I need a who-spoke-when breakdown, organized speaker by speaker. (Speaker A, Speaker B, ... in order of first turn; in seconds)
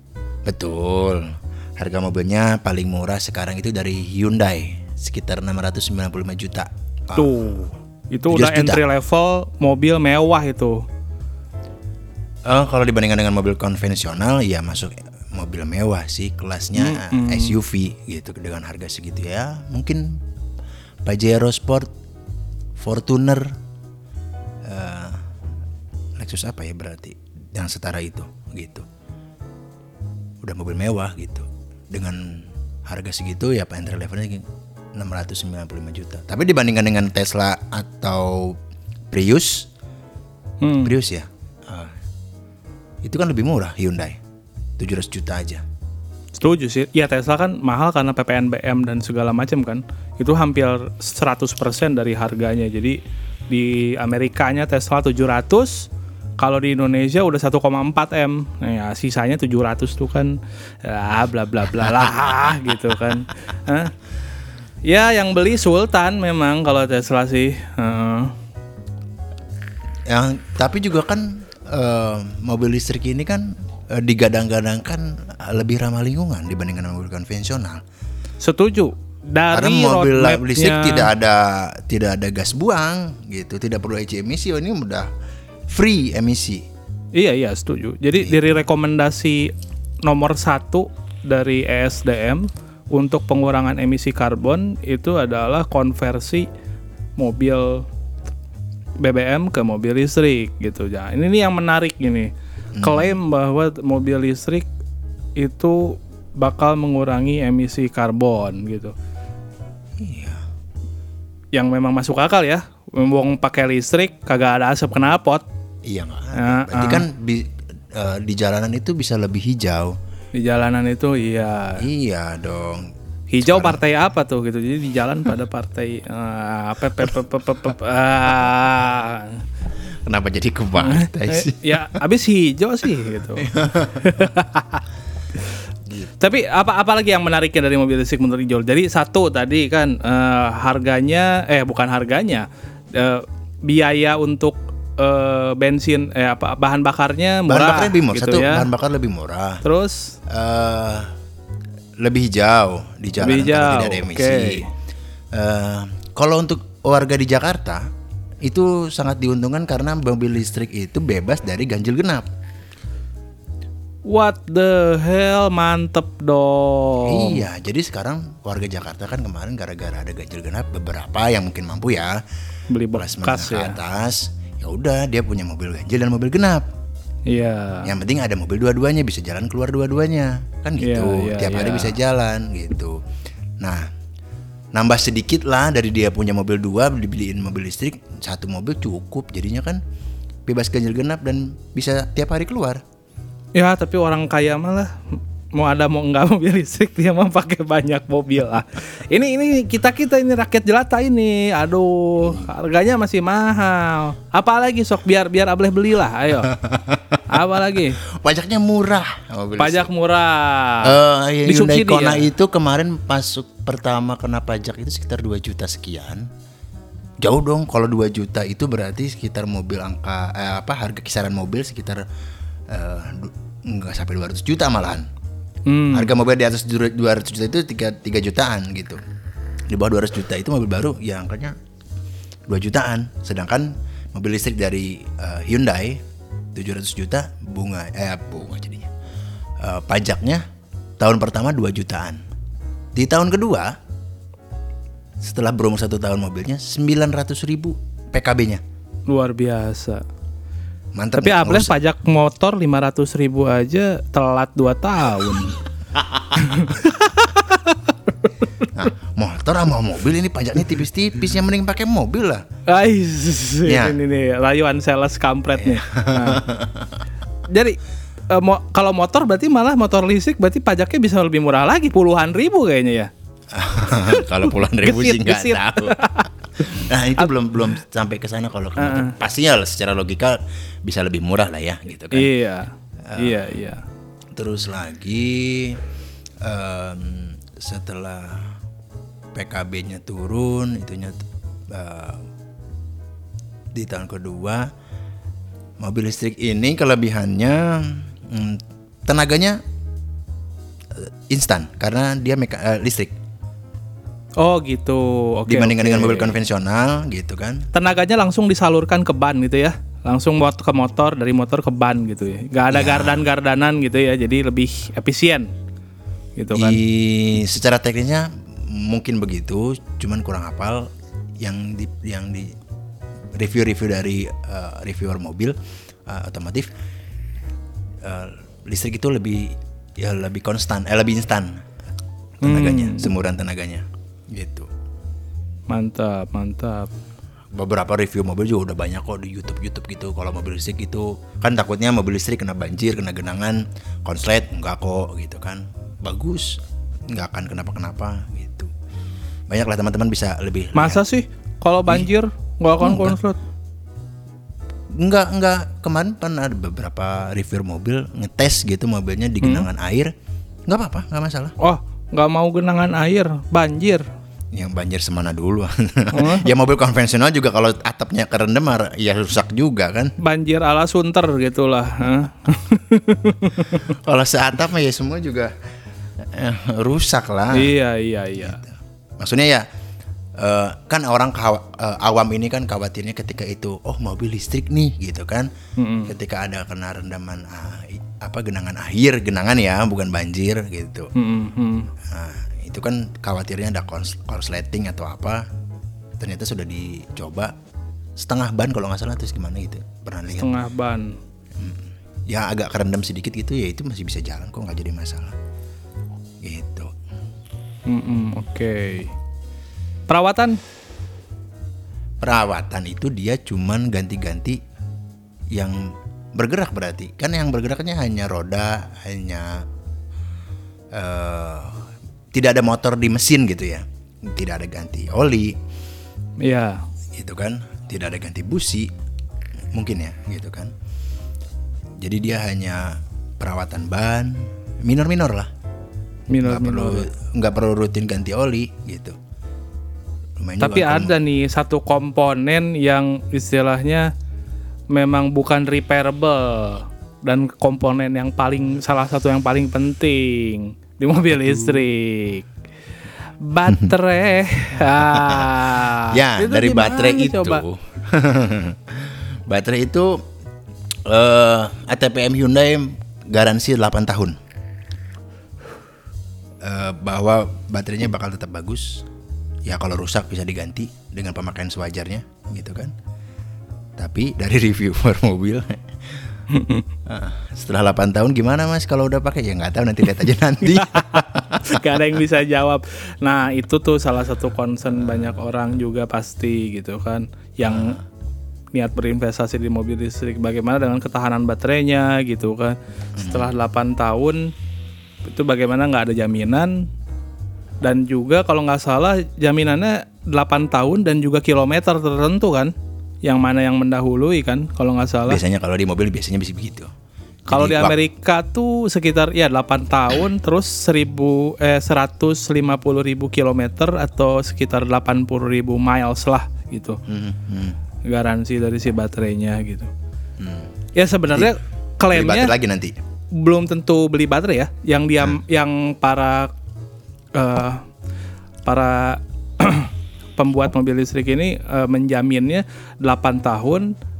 Speaker A: 0.5-7.3, 8.3-8.8, 12.5-20.2, 21.1-21.9, 22.8-23.6, 24.6-25.2, 26.2-28.9, 30.4-34.4, 35.0-38.6, 39.1-39.7, 40.8-41.9, 43.0-44.2, 44.8-45.6, 70.1-77.8, 79.5-85.1, 85.7-86.7, 102.8-103.1, 110.0-110.4, 115.8-120.0, 121.8-123.8, 130.0-132.0, 133.4-134.2, 147.5-149.6, 150.3-151.1, 152.0-154.7, 155.3-157.8, 158.4-162.3, 167.0-172.2, 172.9-176.7, 177.8-183.0, 183.6-183.9, 184.7-189.8, 190.4-192.8, 206.4-207.4, 208.0-209.9, 210.8-216.3, 217.2-222.0, 222.7-225.1, 225.9-229.0, 229.7-231.5, 232.5-236.0, 236.5-238.9, 239.6-240.4, 241.0-242.2, 242.9-243.7, 245.2-248.6, 250.9-251.8, 255.9-256.6, 258.7-262.4, 263.6-264.0, 265.6-267.0, 273.5-276.0, 276.6-282.3, 283.1-283.4, 284.3-285.8, 286.4-288.5, 289.3-292.2, 293.7-294.7, 295.8-299.6, 300.9-303.1, 305.5-307.7, 312.7-313.2, 316.5-322.6, 323.4-326.7, 328.0-331.6, 332.4-334.7, 337.5-346.6, 347.1-348.7, 349.5-351.0, 352.8-353.2, 354.9-360.1, 360.7-361.5, 364.5-370.1, 373.9-375.5, 376.2-377.7, 378.4-379.6, 380.4-385.5, 386.1-391.1, 392.1-395.4, 396.2-397.5, 398.2-400.6, 401.6-405.3, 406.4-406.9, 412.2-414.6, 415.5-419.6, 420.9-425.6, 427.1-428.9, 429.7-430.7, 432.0-435.5, 436.4-439.2, 440.4-441.1, 451.5-451.8, 454.9-460.2, 461.1-464.4, 466.6-469.1, 469.6-472.9, 474.0-476.3, 477.1-481.8, 487.6-488.0, 493.2-493.5, 505.2-506.9, 507.5-507.9, 517.0-517.8, 520.4-520.7, 521.3-521.5, 522.1-523.0
Speaker B: 7.1-10.8, 16.8-17.5, 40.6-40.9, 46.4-53.0, 53.5-55.9, 56.4-63.9, 64.8-68.3, 78.4-81.1, 87.1-89.5, 90.0-96.5, 97.2-97.8, 99.0-104.7, 105.4-108.9, 111.5-115.4, 116.3-117.0, 120.3-121.8, 123.3-129.4, 130.8-134.8, 136.2-148.7, 149.6-150.2, 153.2-154.7, 164.1-167.4, 172.7-173.8, 177.3-177.9, 180.8-182.0, 193.6-206.6, 207.3-208.0, 209.6-212.3, 225.7-226.1, 249.1-250.0, 251.2-255.6, 256.3-258.7, 262.7-266.4, 267.5-267.8, 268.3-273.1, 274.0-277.3, 278.8-279.1, 282.1-283.9, 304.4-306.4, 307.7-315.5, 316.4-316.8, 332.4-333.1, 335.7-336.9, 350.7-353.4, 359.4-359.7, 361.6-364.1, 366.1-366.5, 370.2-373.9, 377.5-378.6, 385.8-386.1, 391.1-391.9, 400.3-401.2, 407.9-409.1, 410.1-410.6, 426.4-426.8, 436.3-437.1, 440.6-444.1, 444.9-452.5, 453.4-457.6, 476.5-476.9, 480.7-488.0, 488.7-494.5, 495.2-496.9, 497.8-505.4, 507.5-517.0, 518.0-519.9, 521.0-522.5, 523.3-526.5, 527.3-527.9, 528.6-533.9